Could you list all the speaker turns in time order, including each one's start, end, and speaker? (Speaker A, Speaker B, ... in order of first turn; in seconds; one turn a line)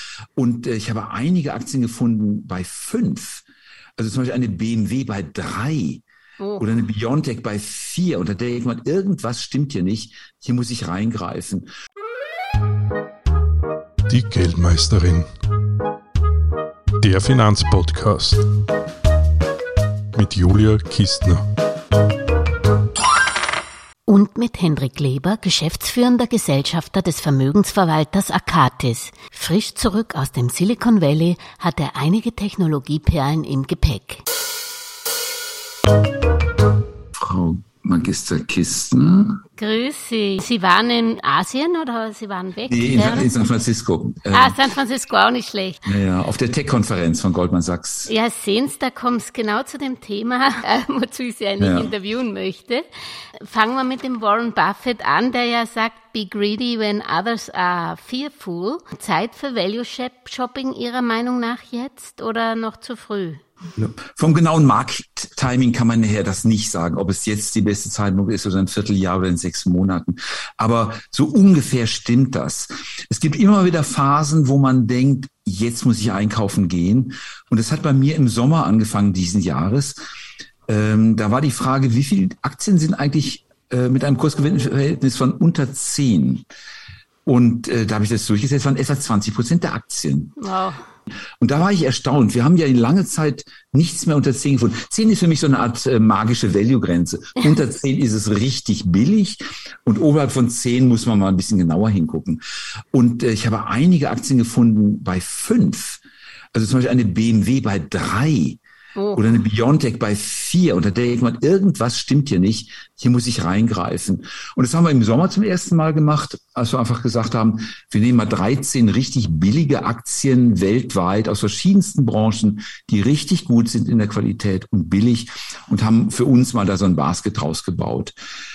Speaker A: 0.3-3.5
Speaker A: 4.0-6.0
Speaker B: 6.4-6.7
Speaker A: 6.6-11.7
Speaker C: 14.1-15.3
Speaker C: 17.0-18.4
Speaker C: 20.1-21.4
Speaker B: 24.1-34.2
Speaker A: 37.1-39.4
Speaker B: 39.6-43.3
Speaker A: 42.7-44.6
Speaker B: 44.3-45.9
Speaker A: 45.9-48.1
Speaker B: 48.1-52.8
Speaker A: 51.6-51.9
Speaker B: 53.4-63.4
Speaker A: 63.8-80.0
Speaker A: 80.7-86.4
Speaker A: 87.2-90.3
Speaker B: 90.4-90.8
Speaker A: 91.4-102.4
Speaker A: 102.9-106.0
Speaker A: 106.5-108.6
Speaker B: 109.0-109.3
Speaker A: 109.1-128.1